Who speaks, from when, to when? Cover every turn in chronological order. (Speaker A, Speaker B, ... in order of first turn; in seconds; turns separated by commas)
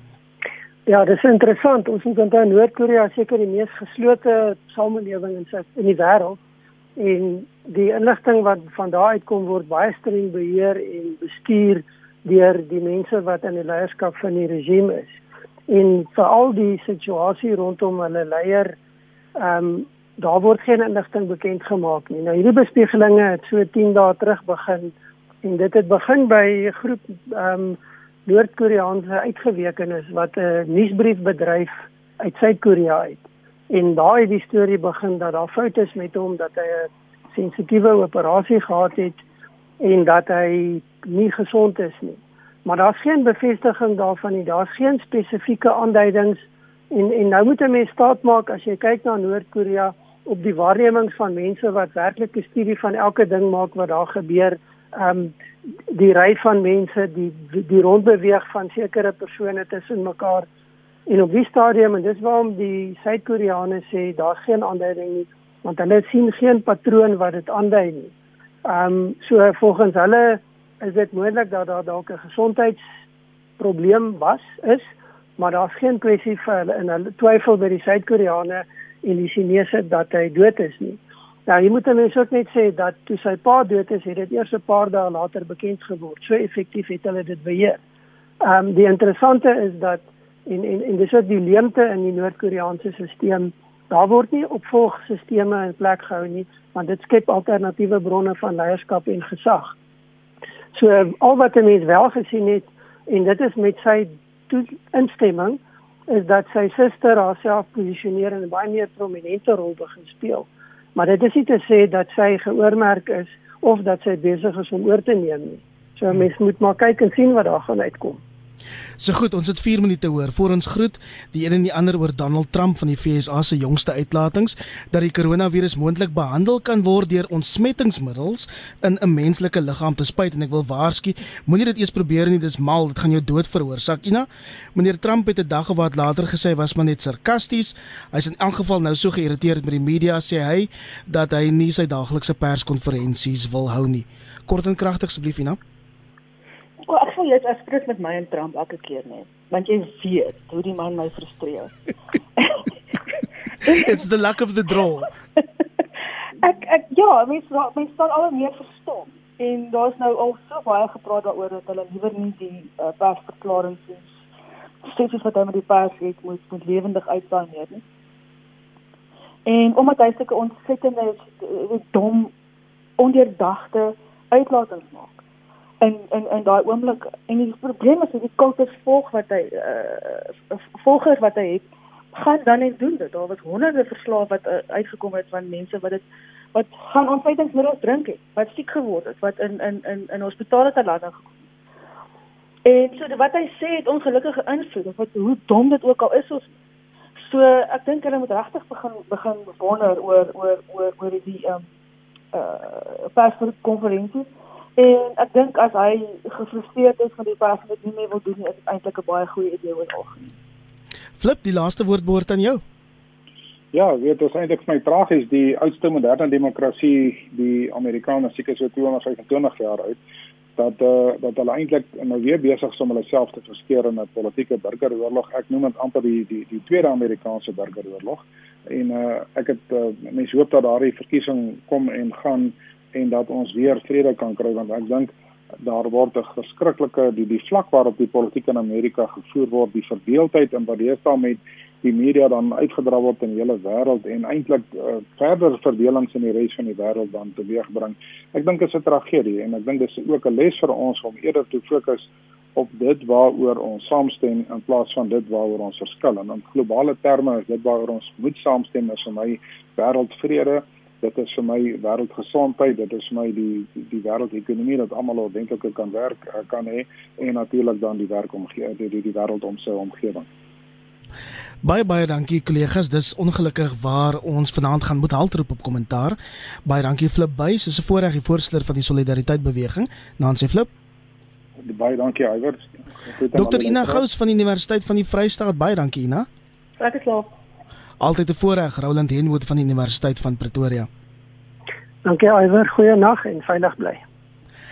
Speaker A: 0.9-6.4, Speaker A: 7.0-18.8, Speaker A: 19.4-39.2, Speaker A: 39.8-55.3, Speaker A: 55.9-60.5, Speaker A: 61.1-68.1, Speaker A: 68.6-72.8, Speaker A: 73.6-87.8, Speaker A: 88.4-99.8, Speaker A: 100.7-118.2, Speaker B: 119.0-145.6, Speaker C: 146.8-151.7, Speaker C: 152.4-152.7, Speaker B: 153.7-155.1, Speaker C: 156.4-164.1, Speaker C: 164.8-167.8, Speaker C: 169.4-172.3, Speaker C: 173.0-175.2, Speaker C: 175.8-186.0, Speaker C: 186.5-191.3, Speaker C: 192.6-196.5, Speaker C: 197.2-201.6, Speaker C: 202.3-204.2, Speaker C: 204.8-210.3, Speaker B: 211.2-212.6, Speaker D: 213.7-220.0, Speaker D: 220.6-270.3, Speaker B: 271.6-280.7, Speaker D: 281.6-284.0, Speaker B: 283.3-286.3, Speaker C: 286.8-287.3, Speaker B: 288.0-290.9, Speaker A: 292.0-294.0